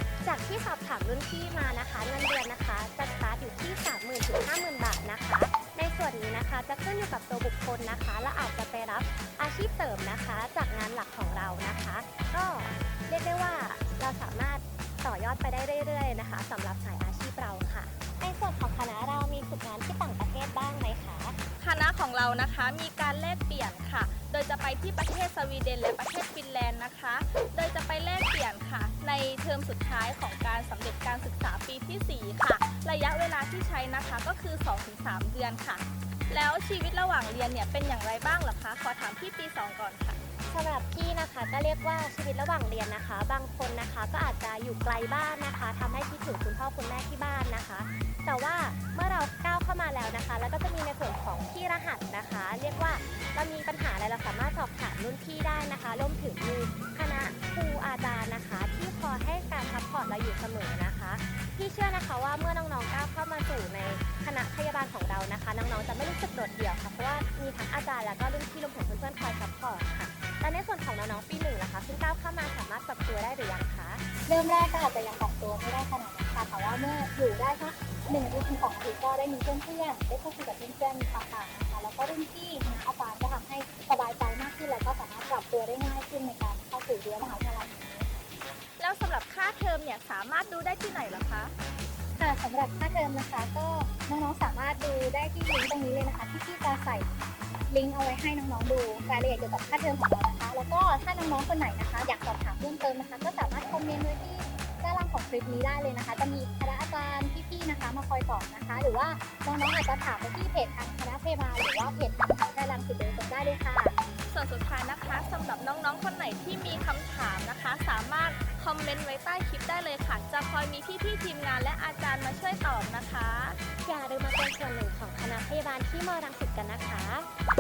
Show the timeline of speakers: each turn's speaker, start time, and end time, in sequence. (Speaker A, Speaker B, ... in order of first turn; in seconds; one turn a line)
Speaker A: 0.2-21.4
Speaker B: 21.6-40.2
Speaker A: 40.5-74.0
Speaker C: 74.3-88.1
Speaker B: 88.8-91.5
Speaker C: 92.2-97.1
Speaker C: 97.7-114.0
Speaker B: 114.3-123.6
Speaker A: 123.8-127.3